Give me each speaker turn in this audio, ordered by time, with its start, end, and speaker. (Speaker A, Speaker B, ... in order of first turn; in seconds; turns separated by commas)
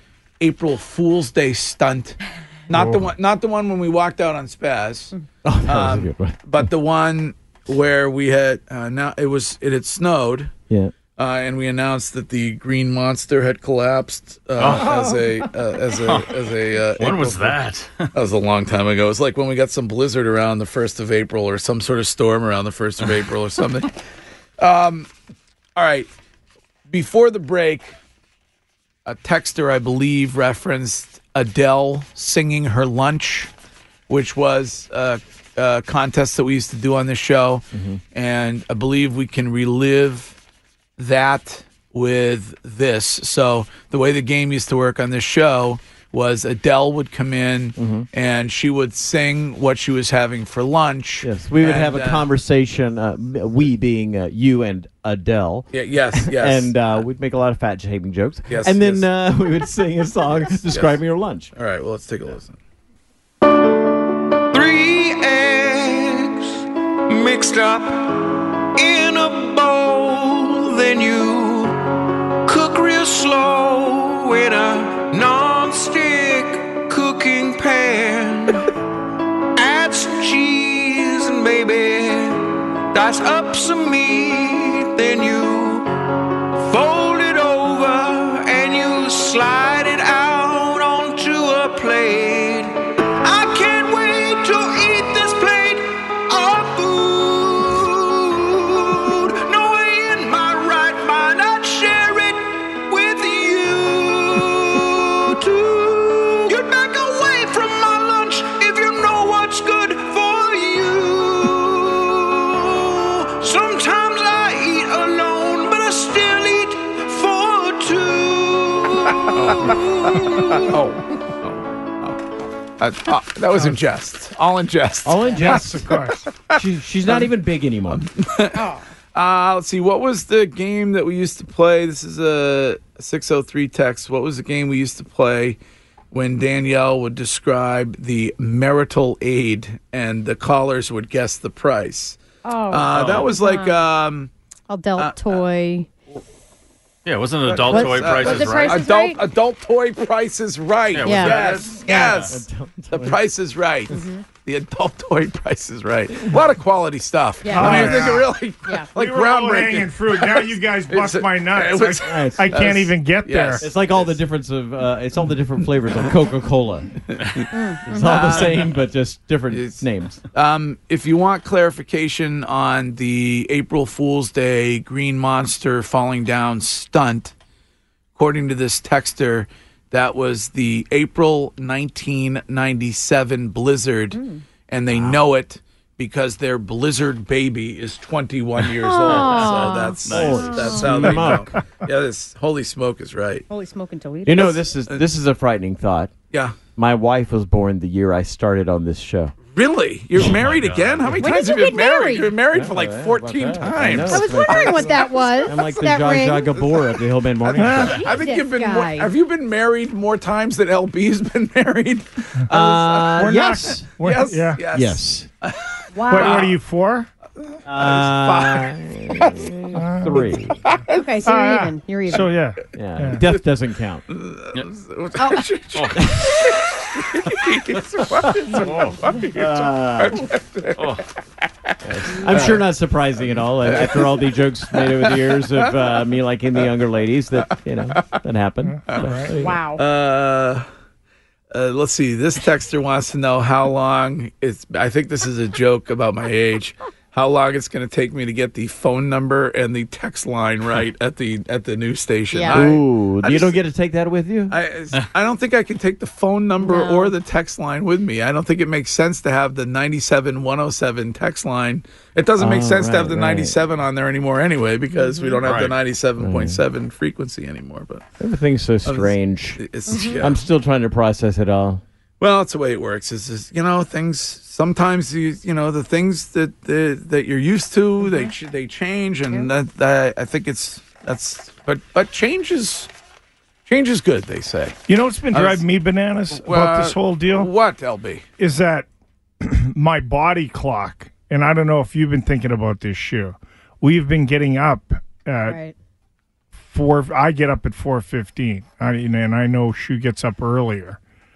Speaker A: 0.4-5.1, Speaker B: 2.7-3.0, Speaker C: 5.4-6.7, Speaker A: 5.7-10.5, Speaker A: 11.2-17.6, Speaker D: 14.6-15.0, Speaker D: 16.0-16.4, Speaker D: 17.0-18.1, Speaker A: 18.1-23.9, Speaker A: 24.6-25.1, Speaker A: 25.8-26.1, Speaker A: 26.9-27.9, Speaker A: 29.1-33.5, Speaker A: 34.1-40.3, Speaker C: 37.7-38.0, Speaker A: 41.0-52.3, Speaker C: 47.8-48.1, Speaker C: 51.2-61.5, Speaker A: 55.7-56.9, Speaker A: 58.5-59.0, Speaker A: 60.7-60.9, Speaker A: 61.5-62.6, Speaker E: 64.5-71.8, Speaker E: 72.5-78.7, Speaker E: 79.5-85.9, Speaker E: 86.6-120.7, Speaker A: 119.3-119.7, Speaker A: 120.5-121.5, Speaker A: 122.8-127.3, Speaker C: 125.0-126.0, Speaker B: 125.3-126.3, Speaker C: 126.5-128.1, Speaker A: 127.9-135.6, Speaker A: 136.1-142.2, Speaker F: 142.4-143.8, Speaker A: 142.7-144.3, Speaker D: 142.9-143.3, Speaker F: 144.7-145.9, Speaker A: 144.9-145.4, Speaker D: 147.1-148.8, Speaker A: 147.4-152.4, Speaker F: 147.6-149.2, Speaker D: 150.9-152.3, Speaker F: 151.0-151.6, Speaker C: 151.8-153.2, Speaker A: 152.9-164.1, Speaker F: 153.9-154.2, Speaker F: 157.4-158.9, Speaker B: 157.5-158.3, Speaker B: 158.9-163.7, Speaker C: 162.0-162.6, Speaker C: 163.6-166.9, Speaker A: 167.1-167.4, Speaker F: 167.5-168.2, Speaker C: 167.9-170.2, Speaker A: 168.0-168.7, Speaker A: 169.5-169.8, Speaker A: 170.3-177.3, Speaker A: 178.1-193.5, Speaker F: 184.1-184.4, Speaker F: 188.8-191.1, Speaker D: 189.1-190.5, Speaker C: 190.1-191.5, Speaker B: 191.1-191.4, Speaker F: 193.5-194.5, Speaker C: 194.2-196.1, Speaker A: 194.4-195.0, Speaker C: 196.8-199.3, Speaker A: 199.5-205.5, Speaker D: 200.3-201.2, Speaker F: 201.2-202.4, Speaker C: 202.5-208.0, Speaker F: 204.0-206.6, Speaker B: 207.5-208.0, Speaker A: 207.9-216.6, Speaker F: 207.9-209.1, Speaker C: 212.5-213.9, Speaker B: 213.1-214.6, Speaker C: 214.7-215.3, Speaker F: 215.9-216.6, Speaker B: 216.1-217.1, Speaker C: 217.7-220.6, Speaker A: 217.8-219.4, Speaker B: 219.7-220.3, Speaker F: 220.9-222.4, Speaker B: 221.2-223.3, Speaker C: 222.7-224.0, Speaker A: 224.1-230.9, Speaker F: 225.2-225.4, Speaker D: 225.7-226.1, Speaker C: 226.0-226.2, Speaker C: 228.2-230.3, Speaker D: 230.8-231.0, Speaker C: 231.8-239.6, Speaker A: 232.1-232.6, Speaker A: 233.6-235.7, Speaker B: 238.6-239.3, Speaker A: 238.9-240.7, Speaker F: 239.4-239.8, Speaker A: 241.5-253.6, Speaker F: 252.3-252.6, Speaker C: 252.5-254.6, Speaker A: 254.5-268.0, Speaker F: 256.6-257.1, Speaker C: 262.4-263.6, Speaker F: 264.9-265.4, Speaker D: 265.4-265.8, Speaker C: 266.2-266.6, Speaker C: 268.2-269.6, Speaker A: 268.8-270.4, Speaker F: 269.9-270.2, Speaker C: 270.1-271.8, Speaker A: 272.2-282.9, Speaker F: 278.0-278.3, Speaker A: 283.6-284.8, Speaker B: 284.9-287.5, Speaker A: 285.3-285.6, Speaker A: 286.3-288.2, Speaker B: 288.4-288.9, Speaker B: 289.4-295.6, Speaker F: 295.4-295.7, Speaker B: 296.7-301.0